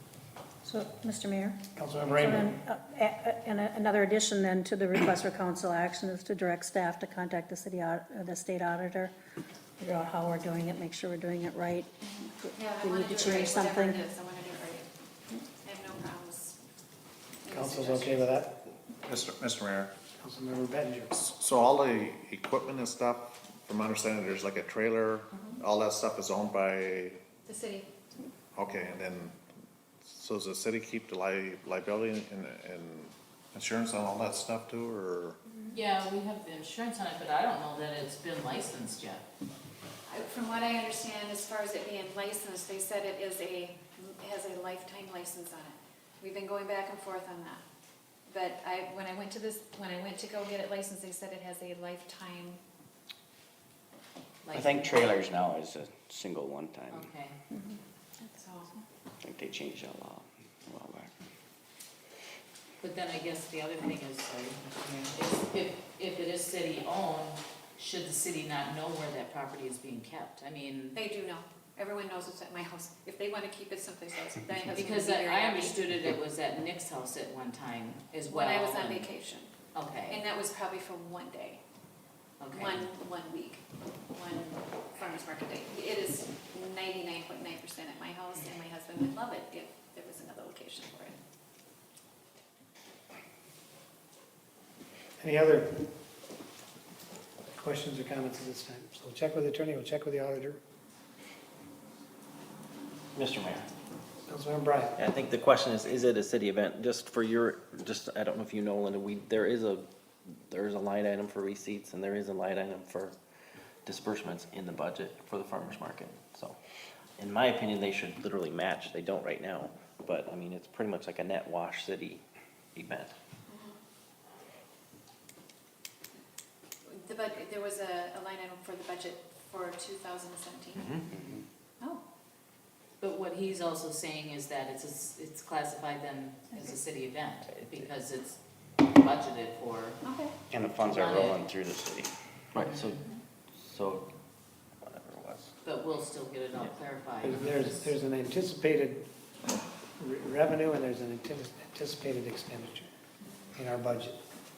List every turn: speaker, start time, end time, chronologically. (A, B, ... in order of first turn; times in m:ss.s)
0:00.6-0:01.6 A
0:01.7-0:02.5 B
0:02.1-0:09.1 A
0:09.8-0:14.0 A
0:12.5-0:14.9 C
0:15.6-0:16.6 C
0:17.4-0:18.3 C
0:17.5-0:18.6 B
0:19.0-0:19.9 D
0:20.2-0:21.1 B
0:21.2-0:27.2 D
0:27.4-0:27.9 C
0:28.6-0:29.3 D
0:30.0-0:35.4 D
0:35.7-0:39.2 E
0:40.1-0:47.6 C
0:48.3-0:52.6 C
0:54.4-0:54.8 E
0:54.5-0:57.0 F
0:54.8-0:57.1 G
0:56.9-0:57.4 E
0:58.2-0:58.8 C
0:59.3-1:00.1 F
0:59.9-1:00.2 G
1:00.7-1:01.1 F
1:02.8-1:11.0 E
1:10.9-1:15.8 C
1:14.7-1:19.1 E
1:18.3-1:19.5 C
1:19.7-1:20.2 E
1:20.1-1:21.6 C
1:22.4-1:22.8 E
1:22.5-1:31.1 C
1:35.2-1:35.9 B
1:37.6-1:40.6 B
1:43.1-1:43.7 F
1:44.3-1:45.0 B
1:45.0-1:53.2 F
1:53.8-1:56.6 F
1:57.2-2:02.2 F
2:02.7-2:03.1 F
2:03.5-2:03.8 C
2:06.9-2:11.0 C
2:13.0-2:18.4 E
2:18.9-2:20.0 E
2:20.0-2:20.3 C
2:20.5-2:22.1 G
2:20.8-2:21.4 E
2:22.5-2:23.0 F
2:22.6-2:23.1 E
2:23.5-2:24.1 F
2:24.8-2:25.5 F
2:25.6-2:27.8 E
2:27.2-2:29.1 B
2:30.0-2:32.9 B
2:33.5-2:34.2 B